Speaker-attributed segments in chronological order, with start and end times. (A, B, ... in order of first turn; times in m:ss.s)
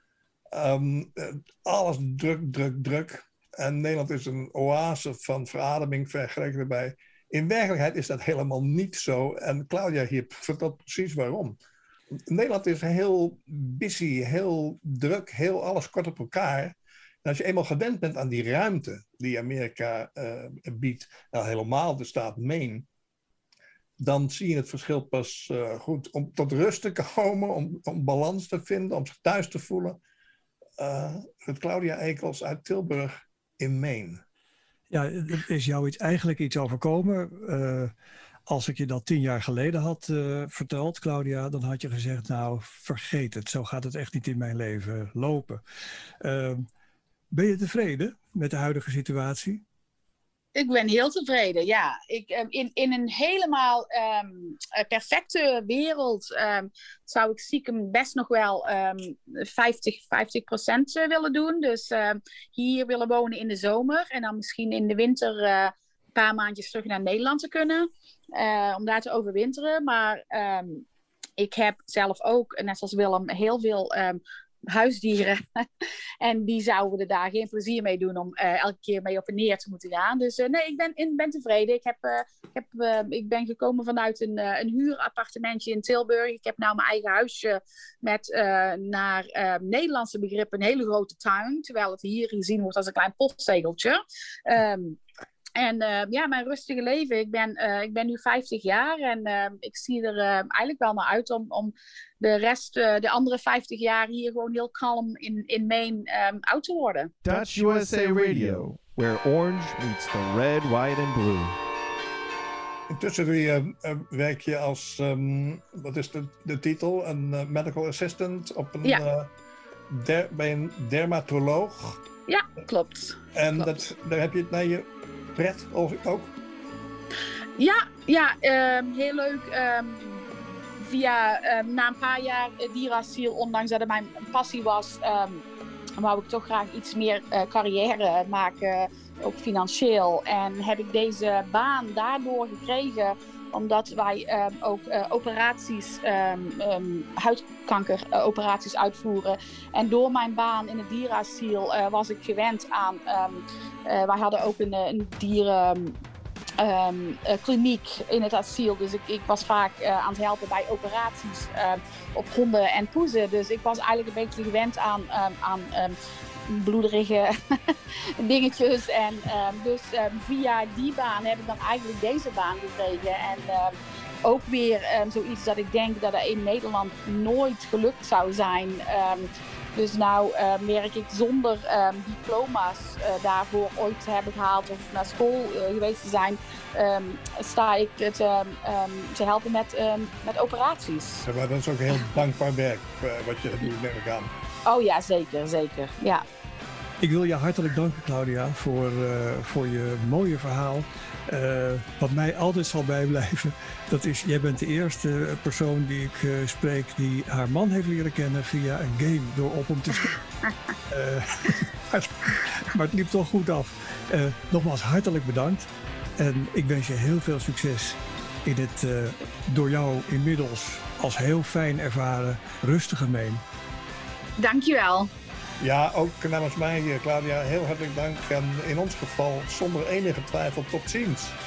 0:00.5-0:11.6 A
0:12.3-0:22.9 A
0:24.0-0:30.0 A
0:30.8-0:34.2 A
0:34.9-0:37.9 B
0:38.5-0:45.6 B
0:46.2-0:46.6 B
0:47.3-0:49.6 B
0:50.5-1:10.8 C
1:11.4-1:15.6 C
1:16.2-1:35.0 C
1:35.6-1:47.1 C
1:47.2-1:51.6 D
1:52.9-1:59.3 A
1:59.9-2:02.0 A
2:02.3-2:03.7 C
2:03.3-2:06.3 A
2:07.6-2:15.4 C
2:16.0-2:36.0 C
2:36.6-3:11.2 C
3:11.2-3:14.3 A
3:14.6-3:16.2 C
3:17.0-3:30.2 B
3:30.9-3:43.4 B
3:44.4-3:45.1 C
3:45.6-3:51.4 A